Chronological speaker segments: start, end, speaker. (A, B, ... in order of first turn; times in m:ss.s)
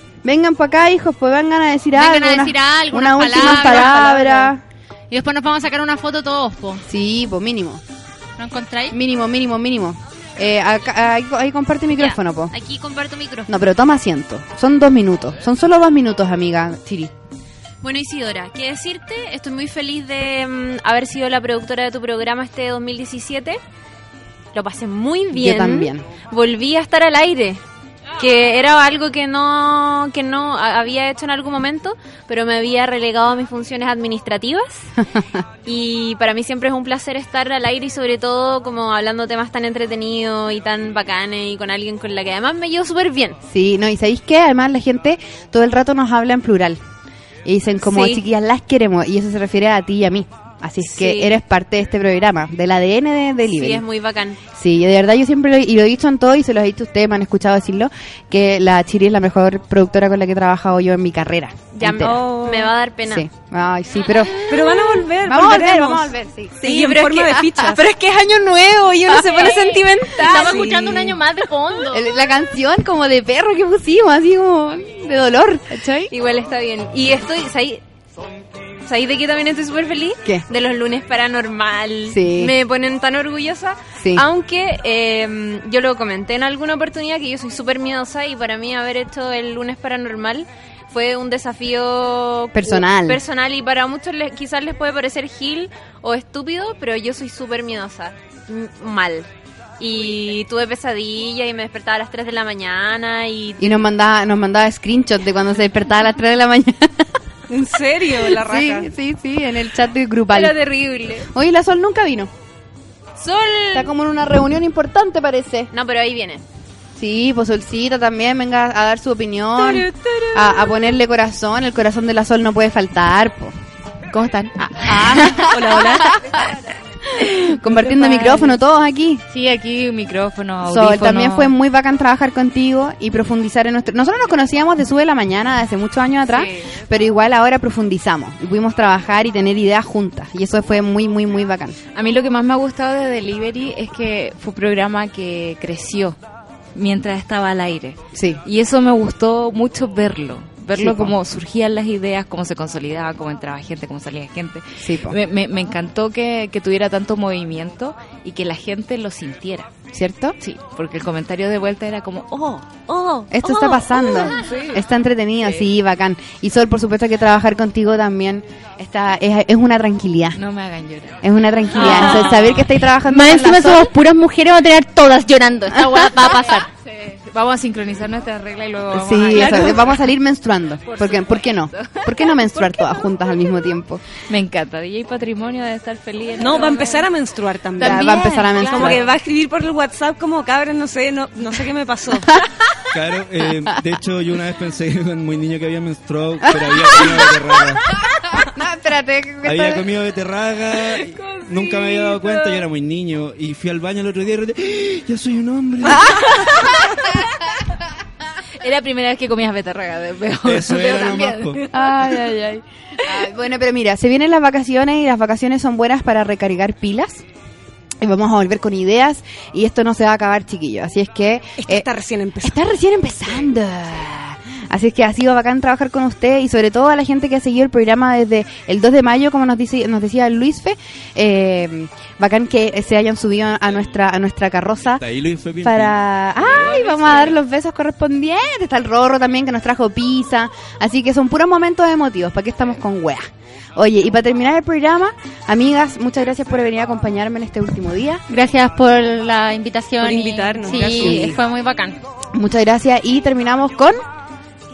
0:00.2-0:04.6 A
0:02.0-0:04.3 B
0:03.4-0:04.5 C
0:05.1-0:06.8 B
0:06.9-0:07.8 A
0:08.4-0:09.0 B
0:08.9-0:12.6 A
0:12.0-0:13.5 D
0:13.5-0:17.1 A
0:17.8-0:23.6 D
0:24.5-0:27.6 D
0:25.3-0:26.1 A
0:28.2-0:34.9 D
0:35.7-0:43.4 D
0:43.5-0:46.8 A
0:47.4-0:53.8 A
0:47.9-0:48.2 D
0:50.9-0:51.4 D
0:53.6-0:54.4 D
0:54.5-1:02.3 A
1:01.9-1:03.2 D
1:02.0-1:02.7 C
1:03.1-1:07.8 A
1:04.4-1:07.8 C
1:07.8-1:10.2 D
1:09.1-1:09.6 A
1:09.3-1:12.1 B
1:10.1-1:11.2 C
1:11.9-1:16.1 A
1:16.1-1:17.8 D
1:18.8-1:43.6 D
1:22.1-1:22.6 A
1:24.0-1:24.2 A
1:32.5-1:33.2 A
1:43.6-1:47.1 A
1:47.5-1:48.9 C
1:48.1-1:50.6 A
1:50.3-1:51.2 D
1:51.3-1:52.3 A
1:53.7-1:55.7 A
1:55.7-1:56.4 D
1:57.0-2:03.6 A
1:59.6-2:00.6 C
2:04.1-2:04.8 E
2:04.8-2:06.2 A
2:05.0-2:06.4 C
2:07.1-2:09.2 A
2:07.7-2:08.6 C
2:09.3-2:11.5 E
2:10.6-2:21.8 A
2:16.3-2:16.7 E
2:21.9-2:26.2 E
2:26.8-2:39.7 E
2:28.1-2:28.4 A
2:30.8-2:31.2 A
2:34.8-2:35.2 A
2:39.9-2:40.4 A
2:40.4-2:43.1 E
2:43.3-2:50.4 A
2:44.2-2:44.8 C
2:50.3-2:51.2 E
2:51.2-2:53.9 A
2:51.8-2:52.4 C
2:51.8-2:52.3 B
2:53.1-2:56.7 B
2:55.7-2:56.2 A
2:56.3-3:00.0 E
2:58.9-3:04.0 A
2:59.4-2:59.8 C
3:00.9-3:03.1 E
3:04.3-3:07.1 E
3:06.4-3:12.3 C
3:07.8-3:09.0 A
3:08.6-3:09.0 E
3:12.9-3:17.9 F
3:16.5-3:17.3 A
3:18.3-3:19.9 A
3:19.4-3:26.4 F
3:21.7-3:22.0 E
3:28.6-3:32.3 E
3:30.5-3:31.6 F
3:31.7-3:37.2 A
3:38.0-3:41.9 A
3:41.6-3:42.7 C
3:42.4-3:55.0 A
3:55.0-3:57.1 F
3:55.6-4:08.2 A
4:08.3-4:12.0 B
4:10.0-4:11.3 C
4:10.7-4:11.4 A
4:12.3-4:14.0 A